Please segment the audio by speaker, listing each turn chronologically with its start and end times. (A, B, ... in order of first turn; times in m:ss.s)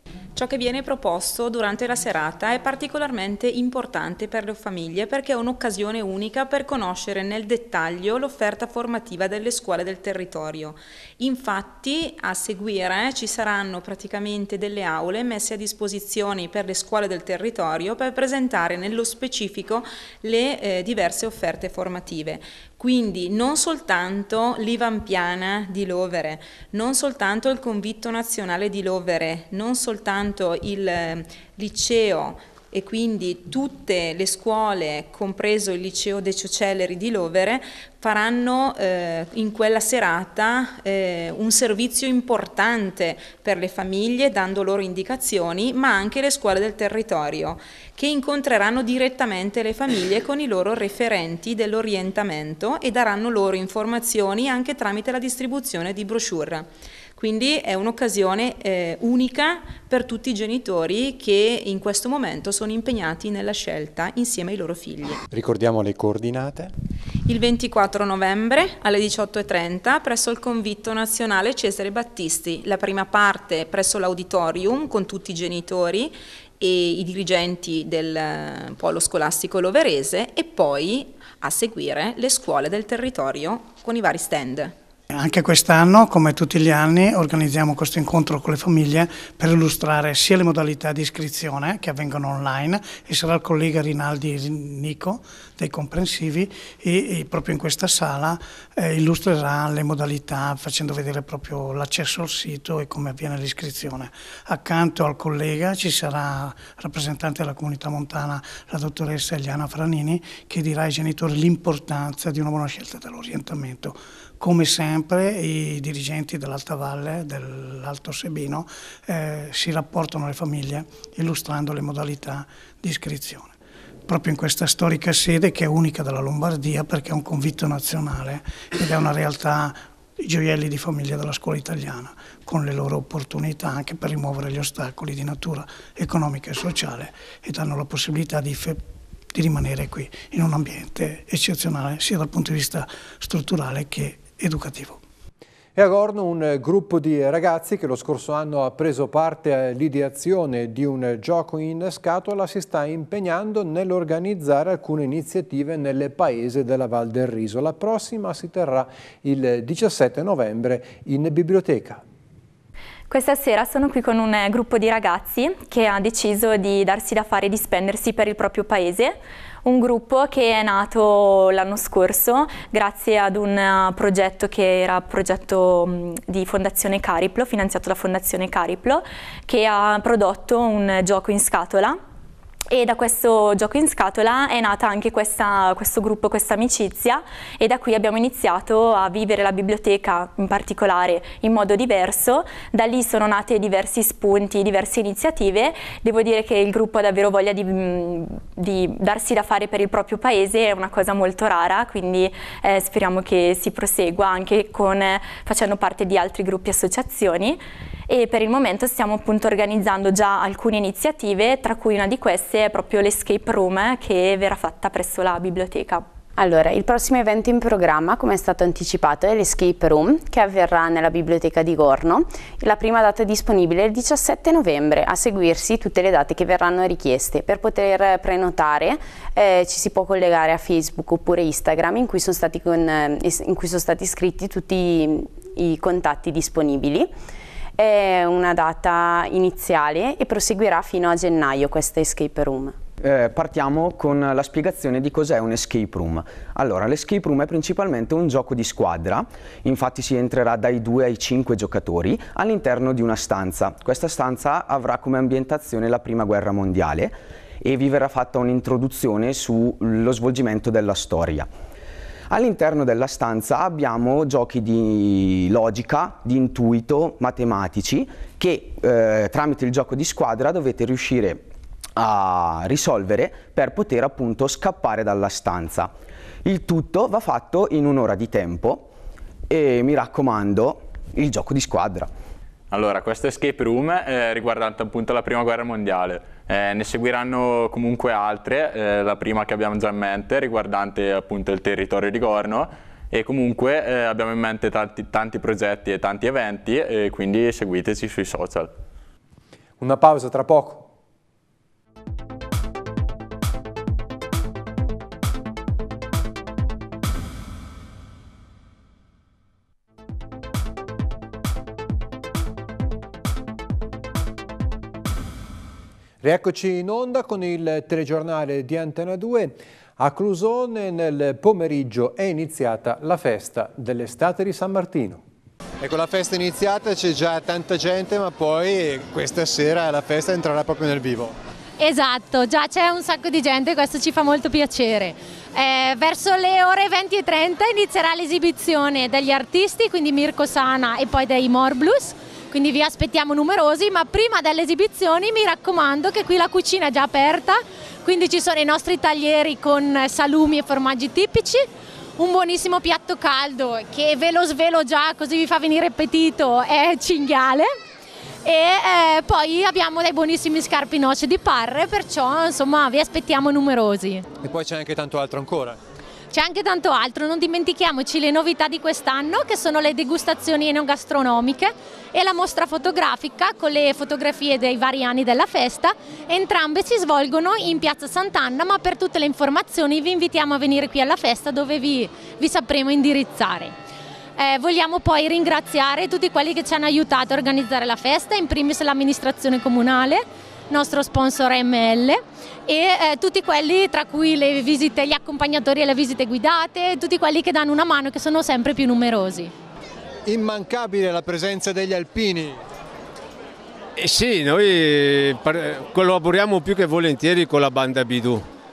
0:00.3-1:05.2 A
1:05.3-1:06.7 B
1:07.2-1:24.8 A
1:25.1-2:03.5 C
2:04.1-2:18.8 C
2:19.3-2:25.0 C
2:25.7-2:42.0 B
2:43.1-3:02.0 D
3:02.7-3:36.0 D
3:36.4-3:57.1 E
3:57.8-4:02.8 E
4:03.0-4:21.5 F
4:22.3-4:38.9 F
4:39.5-4:42.1 F
4:42.7-4:58.7 G
4:59.8-5:00.9 B
5:16.2-5:25.2 B
5:25.8-5:31.3 B
5:31.8-5:51.7 H
5:52.2-5:57.7 H
5:58.4-6:04.2 H
6:04.4-6:05.8 B
6:06.3-6:23.7 H
6:24.4-6:39.5 H
6:40.2-6:42.6 B
6:44.0-6:48.5 I